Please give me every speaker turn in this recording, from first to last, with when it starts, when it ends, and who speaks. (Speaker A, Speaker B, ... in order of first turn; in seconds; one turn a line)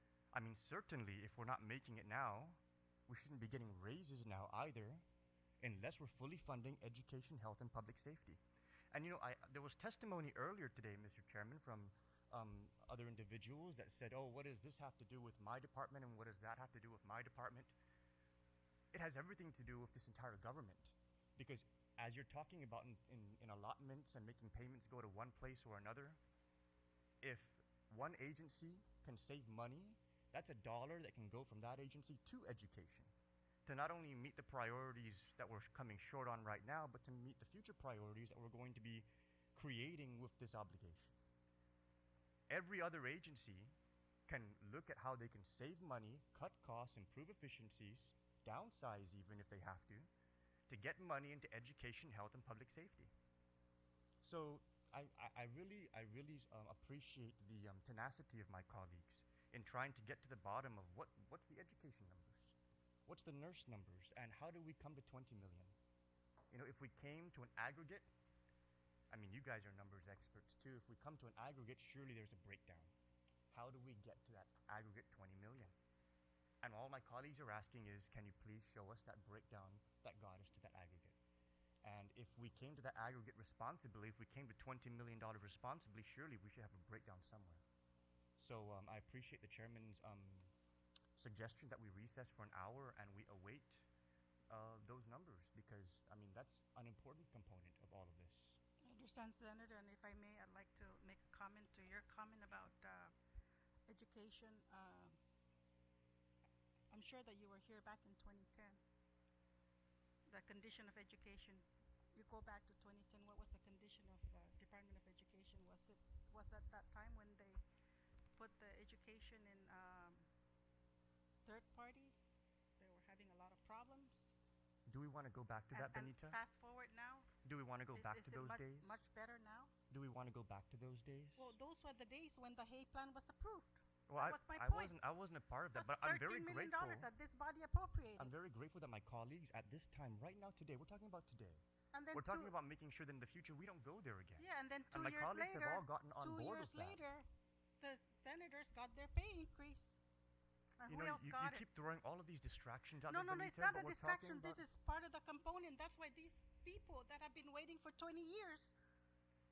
Speaker A: 0.3-5.0
Speaker A: 5.6-8.4
Speaker A: 8.9-17.7
Speaker A: 18.9-26.2
Speaker A: 27.2-33.1
Speaker A: 33.7-41.2
Speaker A: 42.5-43.7
Speaker A: 44.3-50.1
Speaker A: 50.7-53.1
Speaker A: 54.2-62.5
Speaker A: 63.1-65.8
Speaker A: 66.5-68.1
Speaker A: 69.1-72.9
Speaker A: 73.5-75.7
Speaker A: 76.6-81.2
Speaker A: 81.8-87.6
Speaker A: 88.4-90.5
Speaker A: 91.2-93.8
Speaker A: 94.5-98.6
Speaker B: 98.8-103.1
Speaker B: 103.9-105.2
Speaker B: 106.9-108.8
Speaker B: 110.3-117.6
Speaker B: 118.4-120.3
Speaker B: 121.5-122.2
Speaker B: 122.8-124.3
Speaker A: 124.9-126.4
Speaker B: 125.7-127.3
Speaker A: 127.4-129.0
Speaker B: 127.9-129.7
Speaker A: 129.9-131.6
Speaker B: 131.4-135.0
Speaker A: 134.1-137.1
Speaker B: 135.8-138.3
Speaker A: 138.2-141.6
Speaker B: 141.9-142.6
Speaker A: 142.1-147.0
Speaker B: 144.4-147.3
Speaker B: 147.8-150.0
Speaker B: 150.8-151.7
Speaker A: 150.9-154.6
Speaker B: 153.1-158.8